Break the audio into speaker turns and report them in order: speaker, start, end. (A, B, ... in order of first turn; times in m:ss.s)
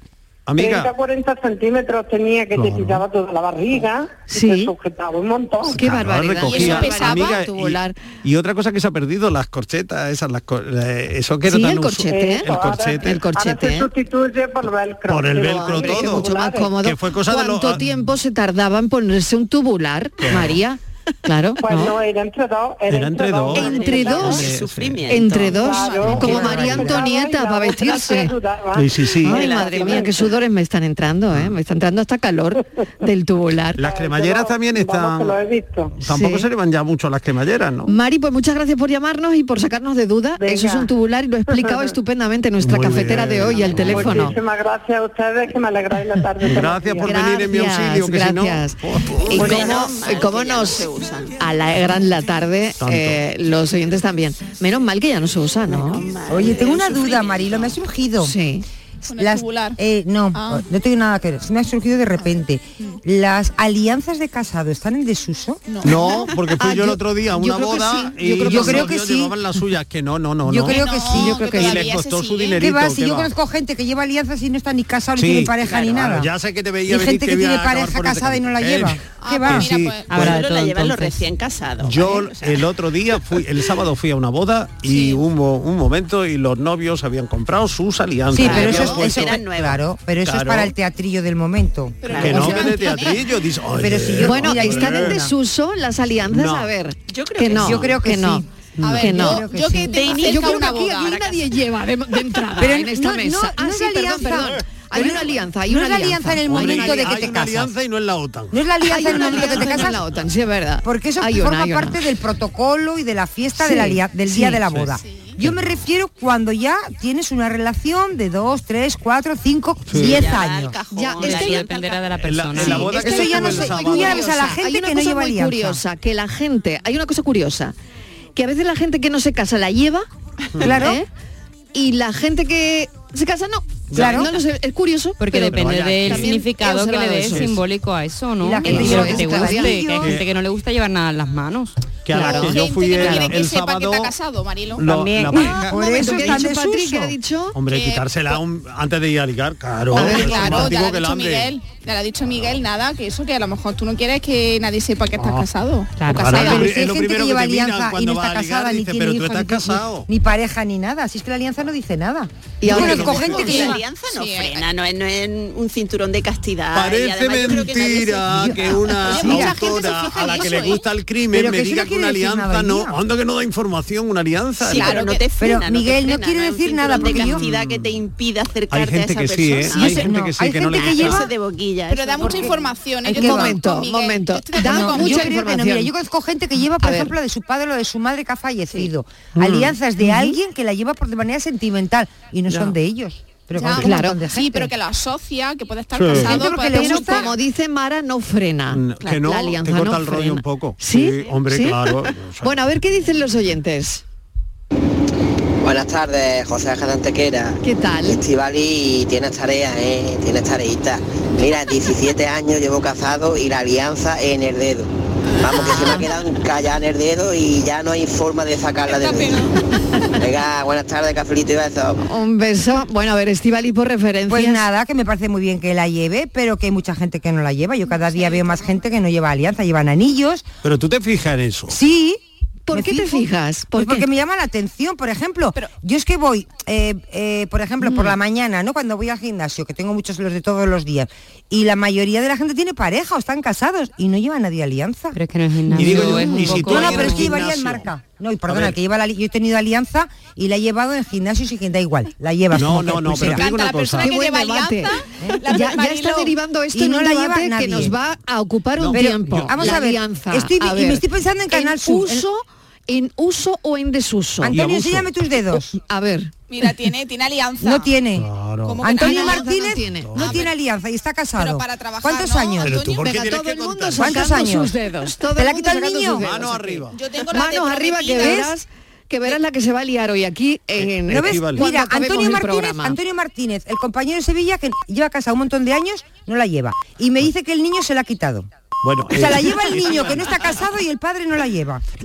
0:00.5-0:00.9 A
0:00.6-0:05.8 B
0:02.5-0:03.0 A
0:04.3-0:04.7 C
0:05.7-0:08.0 C
0:05.7-0:13.3 A
0:06.4-0:07.4 D
0:11.5-0:13.9 C
0:12.1-0:16.7 B
0:15.1-0:18.1 A
0:15.3-0:22.0 C
0:20.2-0:20.6 A
0:21.6-0:24.4 B
0:22.9-0:25.2 A
0:23.5-0:24.5 C
0:23.6-0:26.1 E
0:25.1-0:28.4 C
0:25.4-0:26.6 D
0:25.6-0:30.1 B
0:26.0-0:27.0 A
0:26.2-0:26.9 F
0:28.7-0:29.6 A
0:29.2-0:33.8 C
0:29.3-0:30.2 E
0:33.8-0:35.4 A
0:33.8-0:35.9 B
0:36.0-0:37.9 A
0:36.0-0:36.5 C
0:37.9-0:44.4 C
0:40.4-0:40.9 B
0:41.5-0:41.9 B
0:42.6-0:44.4 A
0:43.8-0:47.2 B
0:46.4-0:49.8 A
0:47.0-0:48.8 C
0:49.2-0:51.4 E
0:49.3-0:50.9 C
0:51.4-0:56.0 C
0:52.8-0:53.2 A
0:55.7-0:57.8 E
0:56.3-0:58.4 F
0:58.2-0:58.7 C
0:59.0-0:59.8 D
0:59.2-1:05.7 F
1:00.3-1:00.7 D
1:05.7-1:06.3 D
1:05.8-1:13.3 A
1:06.6-1:08.9 C
1:08.5-1:09.3 F
1:10.5-1:12.0 F
1:10.7-1:12.7 D
1:12.6-1:16.3 F
1:15.2-1:20.4 A
1:15.6-1:16.0 E
1:16.9-1:19.7 F
1:19.2-1:20.2 D
1:20.1-1:21.2 G
1:20.1-1:22.7 E
1:21.8-1:29.4 A
1:24.8-1:25.2 D
1:28.3-1:32.5 F
1:28.4-1:29.8 E
1:28.5-1:29.0 C
1:30.2-1:30.8 A
1:32.0-1:33.2 D
1:32.1-1:32.5 E
1:32.2-1:35.2 A
1:32.2-1:33.0 C
1:33.8-1:35.3 F
1:34.2-1:39.5 C
1:36.3-1:36.7 A
1:37.1-1:38.0 E
1:37.6-1:40.4 F
1:38.8-1:39.0 A
1:38.8-1:41.4 D
1:39.9-1:40.5 E
1:40.0-1:47.3 C
1:42.6-1:47.7 F
1:46.5-1:50.0 A
1:48.5-1:50.0 F
1:48.9-1:52.0 C
1:50.8-2:00.8 F
1:53.6-1:54.6 C
1:54.7-1:55.7 A
1:55.0-1:55.4 D
1:59.9-2:00.3 A
1:59.9-2:02.0 E
2:00.9-2:01.6 C
2:01.2-2:03.1 G
2:02.2-2:04.5 A
2:02.5-2:07.8 C
2:02.8-2:05.8 F
2:08.4-2:10.1 C
2:10.6-2:11.0 F
2:10.6-2:11.1 C
2:11.7-2:17.5 C
2:13.9-2:14.3 A
2:14.0-2:14.3 F
2:15.2-2:21.8 G
2:15.5-2:16.4 A
2:17.2-2:17.6 A
2:18.4-2:20.2 F
2:18.6-2:19.8 C
2:19.9-2:20.2 A
2:22.0-2:24.1 A
2:22.1-2:23.4 C
2:22.2-2:24.9 D
2:24.8-2:26.4 A
2:25.0-2:27.6 C
2:25.4-2:27.2 F
2:27.6-2:31.5 A
2:27.7-2:28.4 D
2:29.9-2:36.7 D
2:29.9-2:30.8 C
2:35.1-2:35.5 A
2:36.0-2:36.4 G
2:36.1-2:40.1 A
2:36.4-2:43.8 F
2:42.6-2:43.2 C
2:42.7-2:43.5 A
2:42.7-2:49.1 E
2:43.2-2:44.6 D
2:46.7-2:55.0 A
2:48.3-2:49.6 F
2:49.1-2:50.9 D
2:51.3-2:53.0 F
2:54.6-3:00.1 E
2:54.7-2:55.2 D
2:55.4-2:57.4 F
2:57.0-2:58.0 A
2:58.7-3:01.3 A
2:59.8-3:01.3 F
3:00.7-3:02.7 E
3:01.9-3:05.4 D
3:02.2-3:02.5 F
3:03.0-3:03.6 F
3:03.1-3:05.9 C
3:04.6-3:14.7 F
3:06.8-3:07.1 C
3:09.4-3:09.8 A
3:10.0-3:10.4 C
3:13.5-3:17.4 D
3:13.8-3:14.2 C
3:15.9-3:16.4 A
3:16.1-3:17.3 F
3:16.2-3:21.8 C
3:18.7-3:22.6 A
3:22.4-3:24.0 C
3:25.6-3:34.9 H
3:27.6-3:28.2 C
3:35.4-3:39.5 H
3:35.6-3:35.9 D
3:38.9-3:39.5 D
3:40.2-3:42.0 H
3:42.0-3:44.6 C
3:44.3-3:50.5 F
3:48.1-3:48.5 D
3:50.6-3:51.8 A
3:51.7-3:52.2 F
3:52.7-3:54.1 C
3:52.7-4:05.2 F
4:05.1-4:07.3 G
4:05.7-4:07.9 A
4:05.7-4:06.8 C
4:06.0-4:13.5 F
4:08.5-4:08.8 A
4:12.5-4:14.2 A
4:13.2-4:16.4 D
4:14.0-4:14.9 C
4:15.4-4:24.6 C
4:16.7-4:18.0 F
4:18.8-4:19.7 A
4:18.9-4:22.2 F
4:24.4-4:25.7 F
4:24.5-4:25.1 A
4:25.7-4:26.3 C
4:26.5-4:28.0 D
4:27.6-4:28.3 F
4:28.2-4:28.9 A
4:28.6-4:30.5 D
4:28.8-4:32.8 F
4:29.0-4:30.3 C
4:30.0-4:30.5 A
4:31.4-4:33.2 D
4:32.6-4:34.5 A
4:33.0-4:43.0 C
4:34.0-4:34.8 F
4:35.4-4:36.3 F
4:36.2-4:37.0 A
4:36.9-4:38.5 D
4:38.2-4:38.5 F
4:40.8-4:41.7 A
4:41.1-4:48.5 F
4:48.8-4:50.6 A
4:49.1-4:51.8 F